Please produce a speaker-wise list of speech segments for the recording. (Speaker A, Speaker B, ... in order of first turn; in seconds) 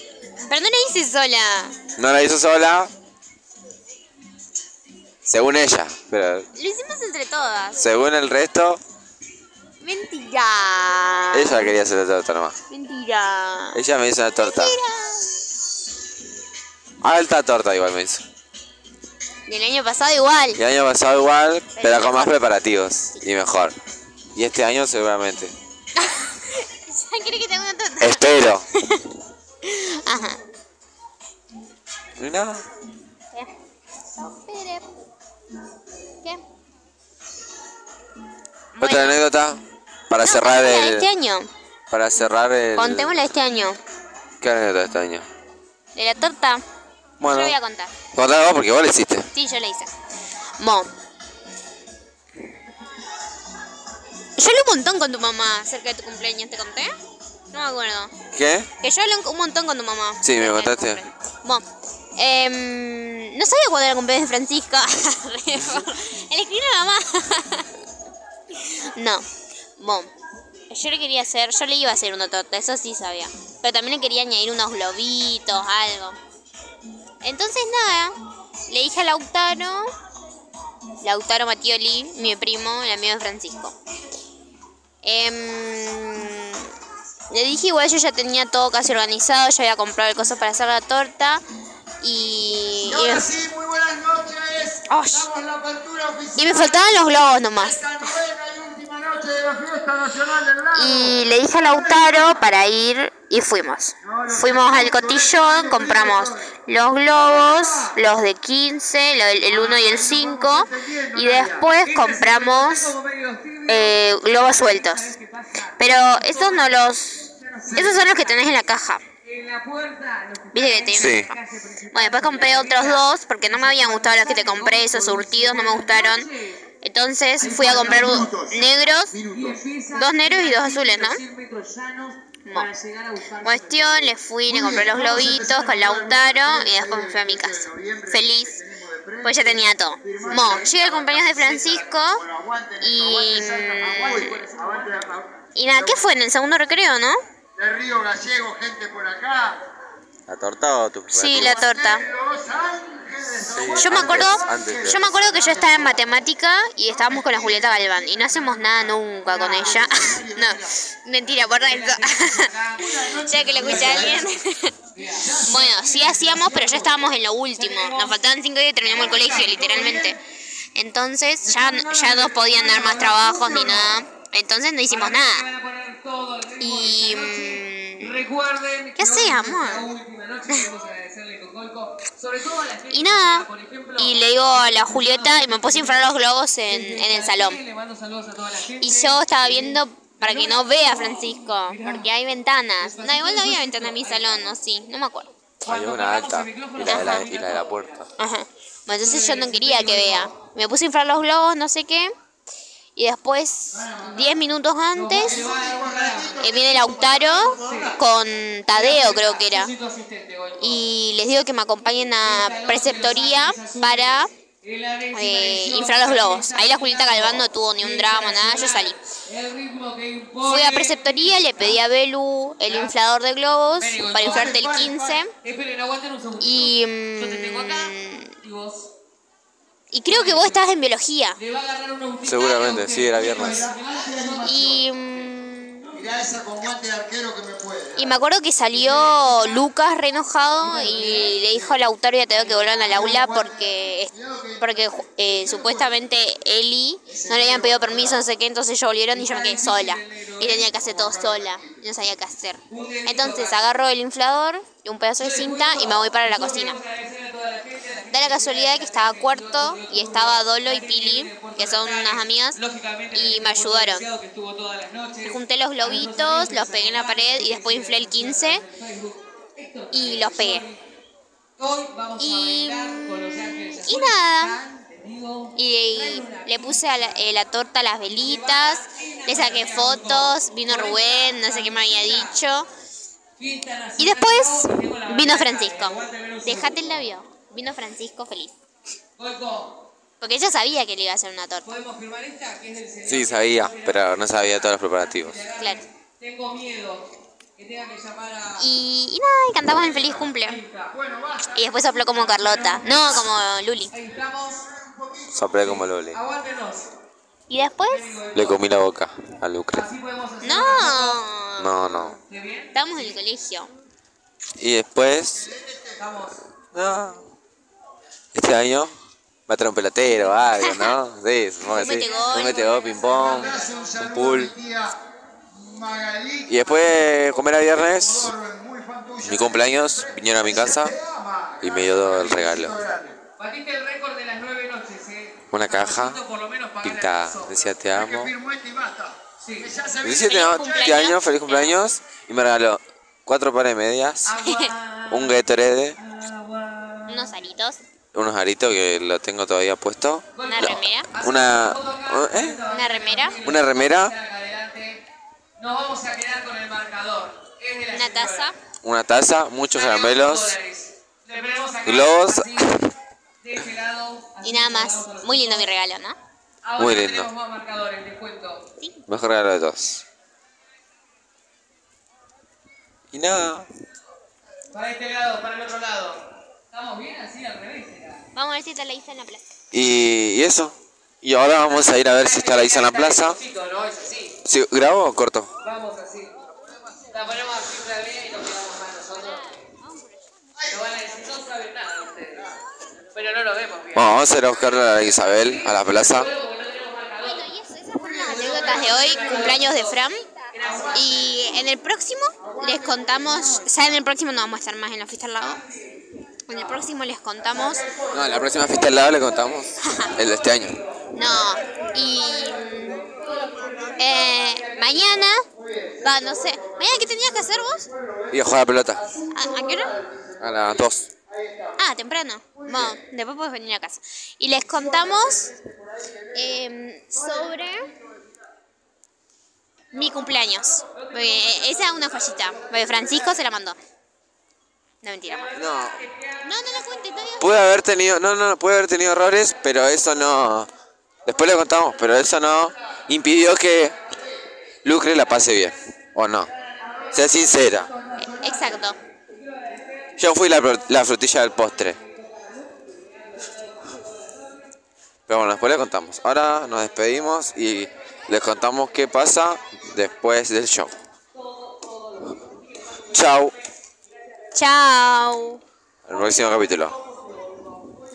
Speaker A: 0.4-1.8, 6.5-7.8, 9.8-11.8, 12.7-13.8, 14.4-15.4, 19.5-20.6, 21.7-22.4, 26.0-30.4, 34.1-34.8, 38.7-39.2, 40.2-41.5, 42.8-43.8, 45.9-46.6, 47.2-47.9, 49.3-49.9, 50.6-50.9, 54.4-56.9, 57.5-58.1, 58.8-61.6, 62.1-67.7, 68.5-69.2, 69.8-70.1, 70.7-76.2, 77.2-78.1, 78.7-79.9, 81.0-83.7, 85.0-86.7, 87.3-91.4, 92.0-93.3, 94.9-95.3, 96.4-97.9, 100.7-112.9, 113.7-115.1, 115.8-119.0, 120.5-121.3, 121.9-126.3, 126.8-129.1, 129.9-131.2, 133.4-138.6, 139.2-142.2, 142.8-144.4, 145.5-147.2, 151.1-152.0, 153.8-162.5, 163.2-164.8, 165.4-170.2, 170.7-175.5, 176.6-178.2, 179.0-179.9, 182.9-187.6, 188.8-195.3, 196.8-197.3, 198.2-202.1, 202.9-205.4, 206.4-209.7, 210.6-214.3, 215.1-219.0, 220.4-225.3, 226.4-228.3, 229.9-231.4, 234.4-235.9, 237.9-256.8, 258.1-262.6, 263.1-264.1, 265.2-268.6, 269.9-270.6, 272.2-273.2, 273.8-274.6, 275.6-282.7, 284.0-288.5, 290.2-291.7, 295.6-295.8, 298.6-300.6, 301.5-303.9, 307.5-308.2, 310.4-312.1, 312.7-313.7, 320.6-320.9, 321.6-322.6, 340.2-341.8, 344.4-344.7, 347.1-347.8, 350.4-351.1, 352.7-353.4, 357.9-358.5, 364.4-366.2, 378.3-379.4, 389.1-390.4, 397.2-400.3, 400.9-405.6, 406.5-407.9, 409.8-410.1, 411.1-413.1, 414.0-415.4, 416.0-417.9, 419.3-419.9, 421.8-425.5, 426.3-427.9, 429.9-433.8, 435.0-435.6, 436.4-437.6, 448.4-449.0, 464.5-465.6
Speaker B: 2.0-2.9, 5.2-6.5, 7.8-8.8, 11.3-12.6, 13.7-14.8, 17.0-18.2, 20.6-23.7, 24.3-25.5, 28.0-28.6, 32.2-32.6, 38.8-41.1, 41.9-43.2, 44.4-45.2, 47.2-47.5, 48.1-49.3, 58.3-58.7, 60.2-61.0, 120.9-121.3, 150.3-151.6, 153.5-155.5, 195.6-198.1, 232.2-233.7, 293.1-295.4, 305.3-306.2, 308.3-309.9, 311.6-312.2, 314.6-315.5, 316.7-317.2, 318.3-318.9, 319.5-324.5, 326.5-328.3, 329.2-330.9, 331.6-332.8, 335.5-336.2, 336.8-338.3, 340.0-344.4, 345.1-346.0, 348.1-352.6, 353.4-354.1, 358.8-360.6, 361.9-362.9, 366.8-367.3, 369.1-370.0, 373.1-373.7, 379.7-383.4, 384.4-385.5, 393.9-396.3, 408.1-410.8, 418.3-419.0, 420.4-421.1, 435.5-436.0, 437.4-440.7, 441.2-443.9, 444.8-446.5, 447.1-447.9, 450.2-452.0, 455.3-460.9, 463.1-463.5, 466.1-466.9
Speaker C: 92.8-102.4, 104.0-106.5, 107.2-108.0, 109.5-111.7, 127.6-129.6, 134.5-146.1, 147.6-149.6, 151.3-156.0, 156.9-160.8, 162.8-164.3, 165.1-165.7, 169.2-170.2, 171.4-172.3, 203.7-204.3, 205.2-207.9, 224.2-225.2, 233.2-234.8, 235.9-238.1, 242.9-246.0, 247.1-248.1, 250.8-251.8, 300.9-301.6, 304.7-305.4, 315.3-316.3, 322.6-325.0, 325.5-333.2, 337.9-340.6, 398.2-398.5, 413.1-413.9, 415.6-416.7, 418.0-418.3, 419.0-420.4, 421.3-421.7, 424.9-426.1
Speaker D: 111.8-118.4, 119.2-126.6, 127.4-128.3, 129.3-136.1, 161.4-164.3, 164.9-170.1, 171.8-174.0, 174.9-186.1, 186.7-192.1, 192.8-194.5, 195.6-198.1, 199.0-200.3, 204.9-206.8, 207.4-208.0, 208.7-210.8, 212.2-221.8, 222.6-222.9, 223.8-224.6, 225.4-228.9, 230.1-230.8, 231.4-235.3, 238.7-239.7, 240.6-241.5, 242.3-243.2, 247.2-248.2, 249.1-250.9, 252.7-253.7, 255.2-270.8, 271.6-277.3, 278.1-282.4, 283.4-287.0, 289.2-289.9, 291.6-298.7, 299.8-301.0, 301.9-303.3, 303.9-304.6, 305.6-306.9, 307.9-308.6, 309.7-311.2, 312.3-312.9, 316.0-316.4, 321.7-323.9, 333.4-337.6, 339.4-339.7, 344.2-347.4, 350.3-355.1, 355.6-358.5, 359.7-362.8, 363.4-365.7, 366.6-368.7, 374.7-378.3, 381.6-384.4, 385.6-386.4, 387.1-389.6, 390.7-392.5, 393.1-397.4, 398.0-401.3, 412.9-414.5, 431.0-432.6, 435.3-437.1, 449.4-450.1, 452.1-454.3, 461.3-463.6, 466.1-467.8